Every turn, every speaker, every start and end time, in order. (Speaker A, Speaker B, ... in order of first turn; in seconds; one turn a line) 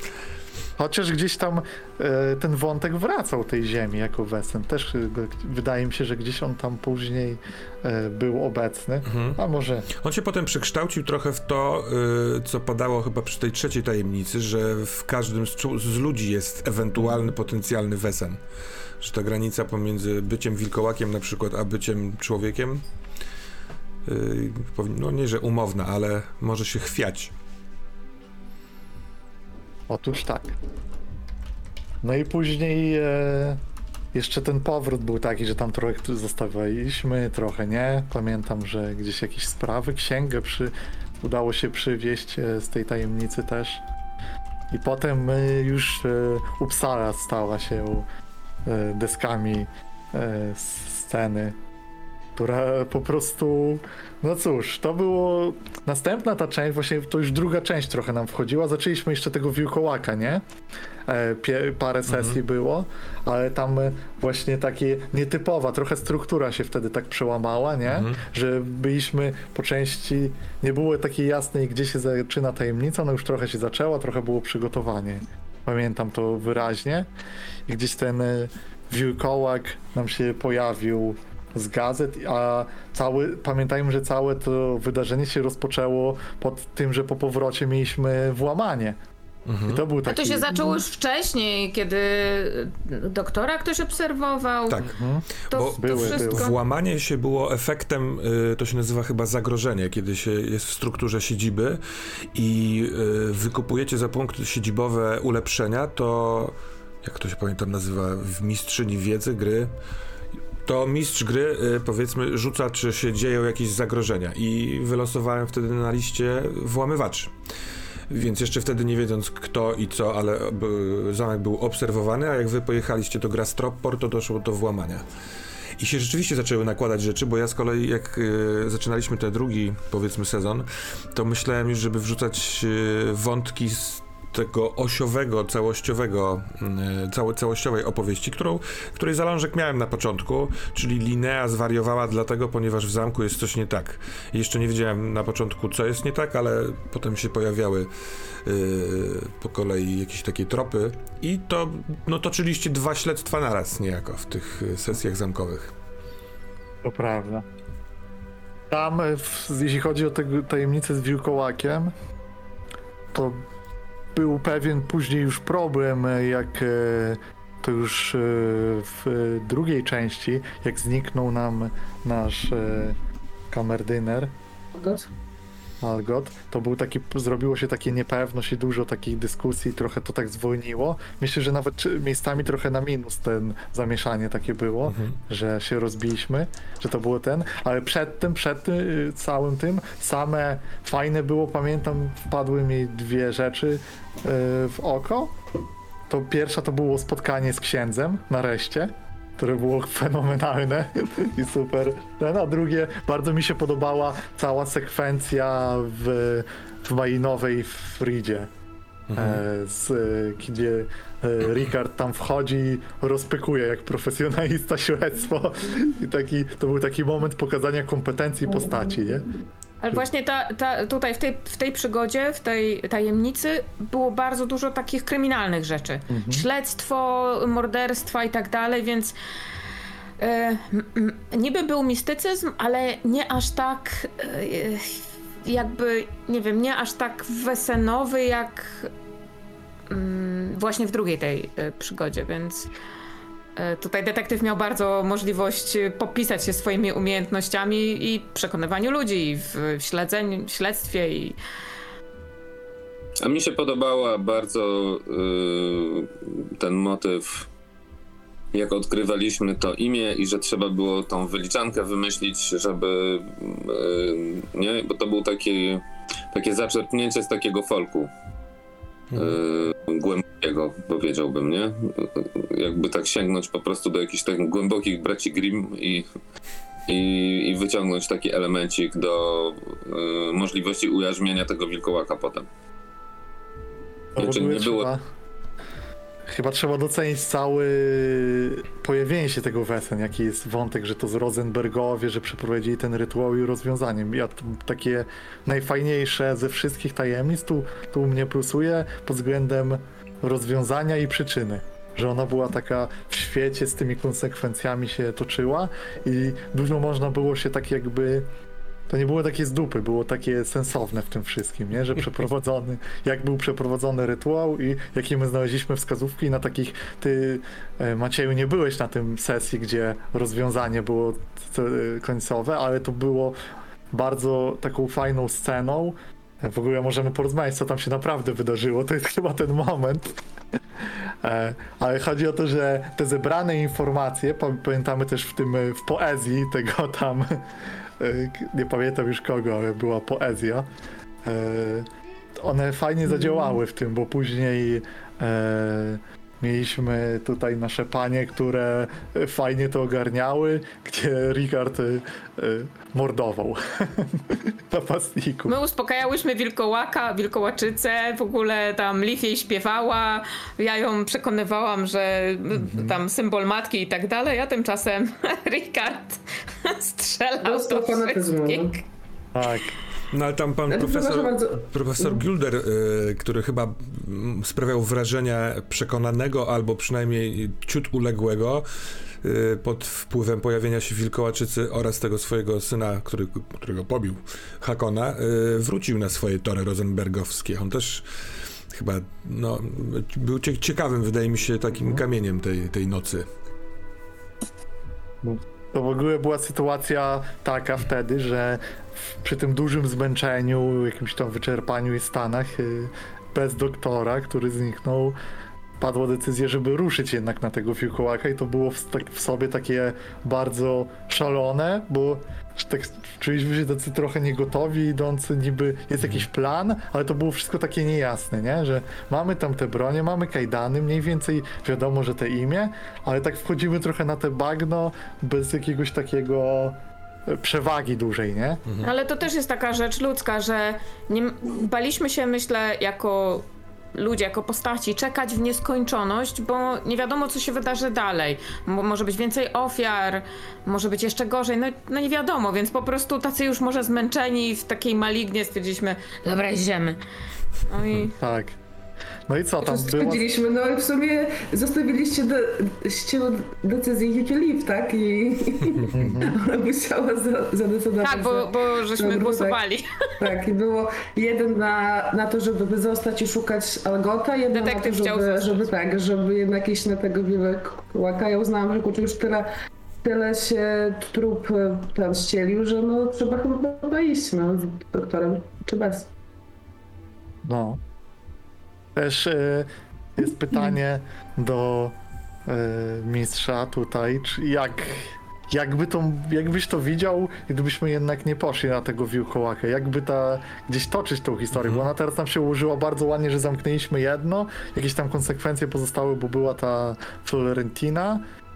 Speaker A: 0.8-9.9
Speaker B: 9.1-9.4
Speaker B: 9.9-18.4
Speaker B: 19.0-22.8
Speaker B: 24.0-27.3
Speaker A: 29.9-30.5
Speaker A: 32.0-33.6
Speaker A: 34.1-43.8
Speaker A: 44.7-48.1
Speaker A: 48.6-51.6
Speaker A: 52.4-60.4
Speaker A: 61.0-77.1
Speaker B: 62.1-62.4
Speaker B: 67.9-68.2
Speaker A: 77.7-89.0
Speaker B: 89.5-89.8
Speaker A: 89.7-90.6
Speaker C: 90.0-94.9
Speaker A: 94.8-96.5
Speaker C: 95.5-96.6
Speaker B: 95.5-101.8
Speaker B: 102.3-109.7
Speaker B: 110.6-117.3
Speaker B: 118.1-125.0
Speaker B: 125.8-147.9
Speaker B: 148.4-155.7
Speaker A: 156.8-157.4
Speaker A: 158.7-161.9
Speaker A: 163.1-163.4
Speaker A: 164.1-172.9
Speaker A: 173.5-174.3
Speaker D: 174.7-175.1
Speaker A: 175.8-195.3
Speaker B: 184.9-185.2
Speaker A: 196.1-208.5
Speaker B: 209.1-209.4
Speaker A: 209.2-219.3
Speaker C: 219.8-229.1
Speaker A: 226.1-226.4
Speaker C: 230.2-238.9
Speaker C: 239.9-242.7
Speaker C: 243.6-251.4
Speaker E: 253.2-257.5
Speaker E: 258.5-268.1
Speaker B: 269.1-269.4
Speaker E: 269.1-276.1
Speaker E: 276.9-282.5
Speaker A: 284.1-285.0
Speaker E: 284.2-284.9
Speaker A: 286.2-308.3
Speaker A: 308.9-323.4
Speaker A: 323.9-330.2
Speaker A: 331.2-340.7
Speaker A: 341.2-341.9
Speaker A: 342.4-355.5
Speaker C: 355.5-368.8
Speaker A: 362.5-363.0
Speaker D: 367.4-368.8
Speaker A: 369.3-369.8
Speaker B: 370.1-378.6
Speaker D: 370.7-372.2
Speaker B: 379.2-388.1
Speaker B: 388.7-393.3
Speaker A: 395.2-405.2
Speaker A: 405.8-428.6
Speaker B: 428.6-428.9
Speaker C: 428.8-447.0
Speaker C: 447.7-448.1
Speaker A: 448.1-448.6
Speaker A: 449.3-450.2
Speaker D: 449.6-459.6
Speaker A: 455.9-456.4
Speaker C: 458.0-459.9
Speaker D: 460.2-469.5
Speaker C: 464.5-465.6
Speaker D: 470.0-476.1
Speaker A: 477.4-477.8
Speaker A: 478.9-498.2
Speaker B: 491.6-491.8